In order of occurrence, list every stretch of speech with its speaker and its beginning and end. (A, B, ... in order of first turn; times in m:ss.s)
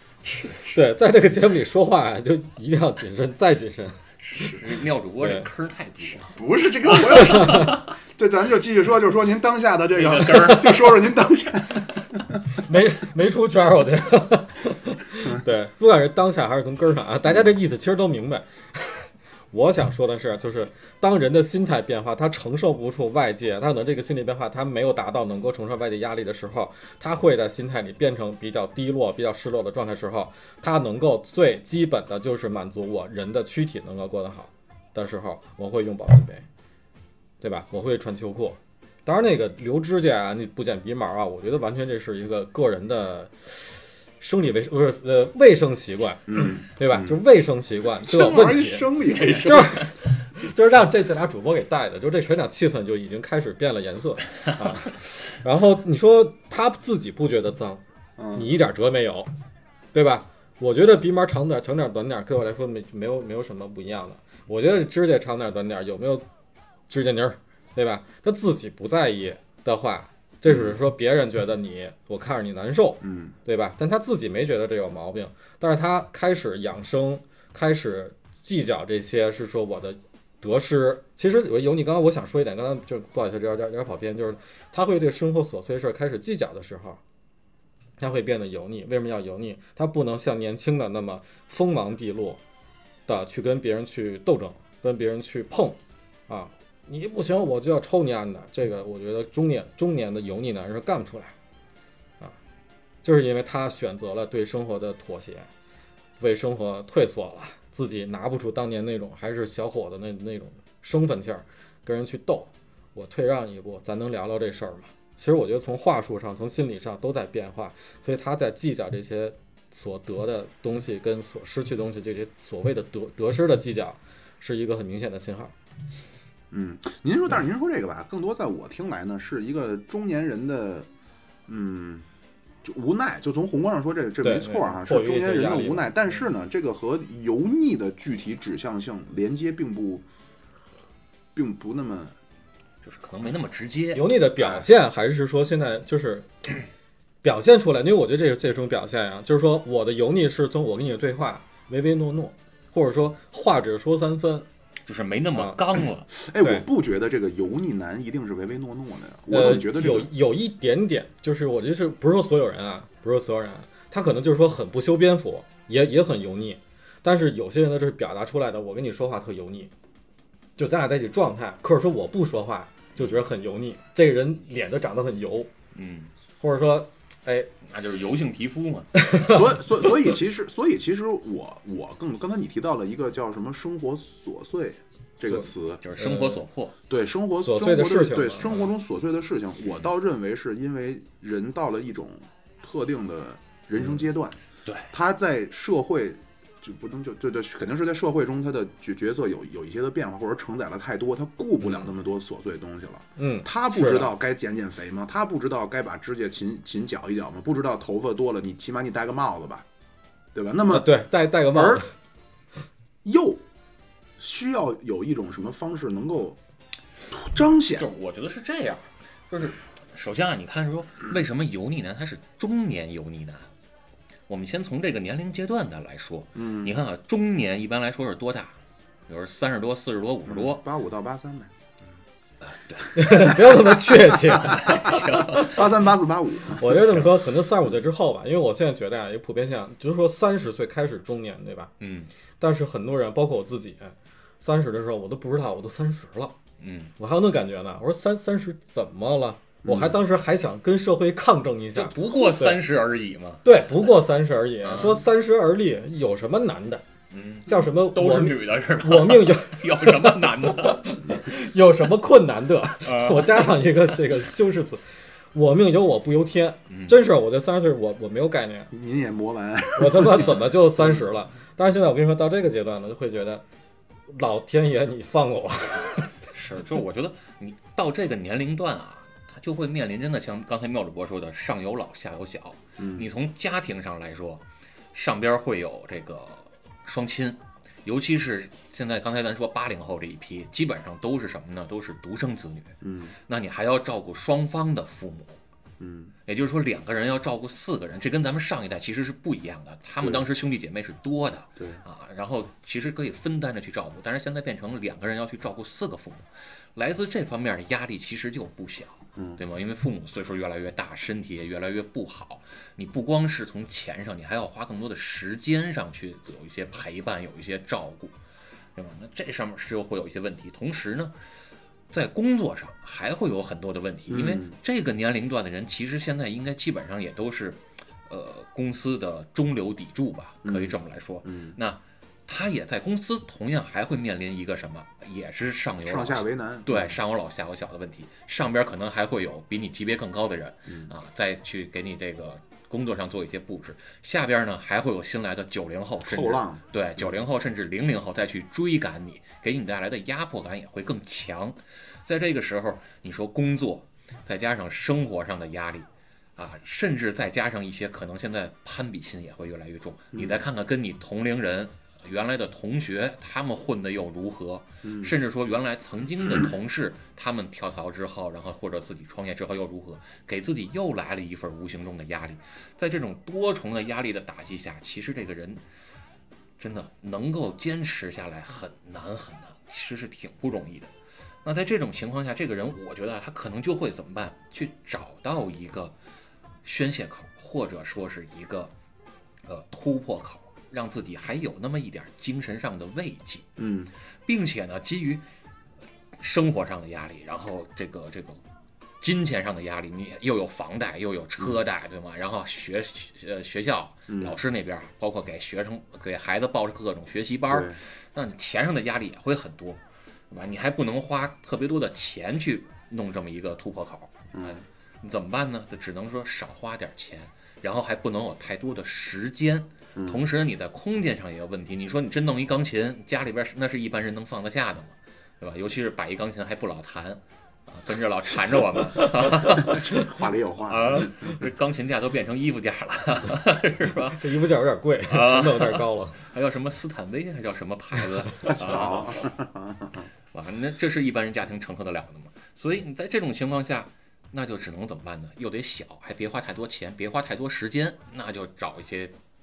0:00.7-0:04.0 A
0:04.2-0:06.4 B
0:05.2-0:05.5 A
0:06.3-0:12.4 C
0:07.1-0:07.8 A
0:07.3-0:07.8 B
0:10.0-0:11.0 B
0:12.6-0:36.4 A
0:37.4-0:43.5 A
0:44.2-0:57.8 A
0:46.3-0:47.1 C
0:48.0-0:49.8 C
0:58.2-0:58.5 C
0:58.3-0:59.3 A
0:59.9-1:06.2 A
1:06.9-1:27.0 A
1:10.5-1:10.8 C
1:13.0-1:13.4 C
1:28.0-1:32.4 A
1:33.1-1:41.3 A
1:43.0-1:45.5 A
1:46.2-2:05.5 A
2:06.5-2:10.9 C
2:11.5-2:12.1 C
2:12.6-2:20.0 C
2:14.2-2:16.0 A
2:21.4-2:22.2 C
2:22.8-2:24.6 B
2:23.9-2:26.3 A
2:27.2-2:34.5 A
2:34.9-2:36.1 B
2:35.3-2:35.6 A
2:36.1-2:40.1 C
2:39.3-2:49.7 A
2:50.6-2:55.5 A
2:55.7-2:56.1 B
2:56.4-2:57.5 A
2:57.6-2:59.2 B
2:59.2-3:05.8 C
3:05.2-3:06.4 A
3:05.8-3:06.7 B
3:06.9-3:14.4 C
3:07.4-3:08.6 A
3:14.7-3:14.9 B
3:14.9-3:29.7 C
3:23.2-3:24.1 A
3:30.4-3:30.9 C
3:30.7-3:31.8 A
3:31.5-3:31.8 C
3:33.0-3:33.4 C
3:34.2-3:36.4 C
3:37.1-3:37.9 C
3:37.8-3:43.5 B
3:44.3-3:48.5 B
3:46.4-3:46.7 C
3:49.1-3:50.7 B
3:50.3-3:51.5 C
3:52.4-3:53.5 B
3:53.0-3:54.9 A
3:54.3-3:56.8 C
3:54.4-3:55.7 B
3:56.6-4:01.7 A
3:56.7-3:57.1 B
4:01.8-4:02.1 B
4:02.4-4:06.4 A
4:06.6-4:06.9 B
4:07.0-4:12.6 A
4:09.6-4:09.9 C
4:11.8-4:13.5 B
4:13.4-4:16.8 A
4:14.6-4:15.0 B
4:17.1-4:21.0 B
4:17.5-4:24.8 A
4:22.8-4:23.8 B
4:25.3-4:28.7 A
4:26.7-4:27.0 B
4:28.7-4:30.4 C
4:29.8-4:33.4 A
4:34.1-4:36.1 A
4:36.3-4:44.4 B
4:42.8-4:43.1 C
4:44.9-4:55.4 B
4:52.8-4:53.2 C
4:55.8-4:56.1 C
4:56.3-5:18.2 B
5:00.0-5:00.3 C
5:01.6-5:01.8 C
5:09.2-5:09.4 C
5:18.8-5:21.1 B
5:21.9-6:15.6 B
5:24.1-5:24.6 C
5:30.4-5:31.6 C
5:35.8-5:37.0 C
5:46.1-5:47.1 C
6:00.1-6:00.4 C
6:04.8-6:05.2 C
6:16.6-6:20.9 B
6:21.4-6:26.0 B
6:26.6-6:28.7 B
6:29.4-6:33.6 B
6:33.6-6:33.9 C
6:34.2-6:35.2 B
6:36.2-6:38.4 B
6:39.0-7:09.9 B
6:44.1-6:44.4 C
6:47.5-6:47.8 C
6:54.3-6:54.6 C
7:00.0-7:00.2 C
7:09.2-7:11.3 C
7:10.6-7:14.3 B
7:14.2-7:16.2 A
7:15.1-7:19.3 B
7:18.5-7:20.1 C
7:20.3-7:29.1 B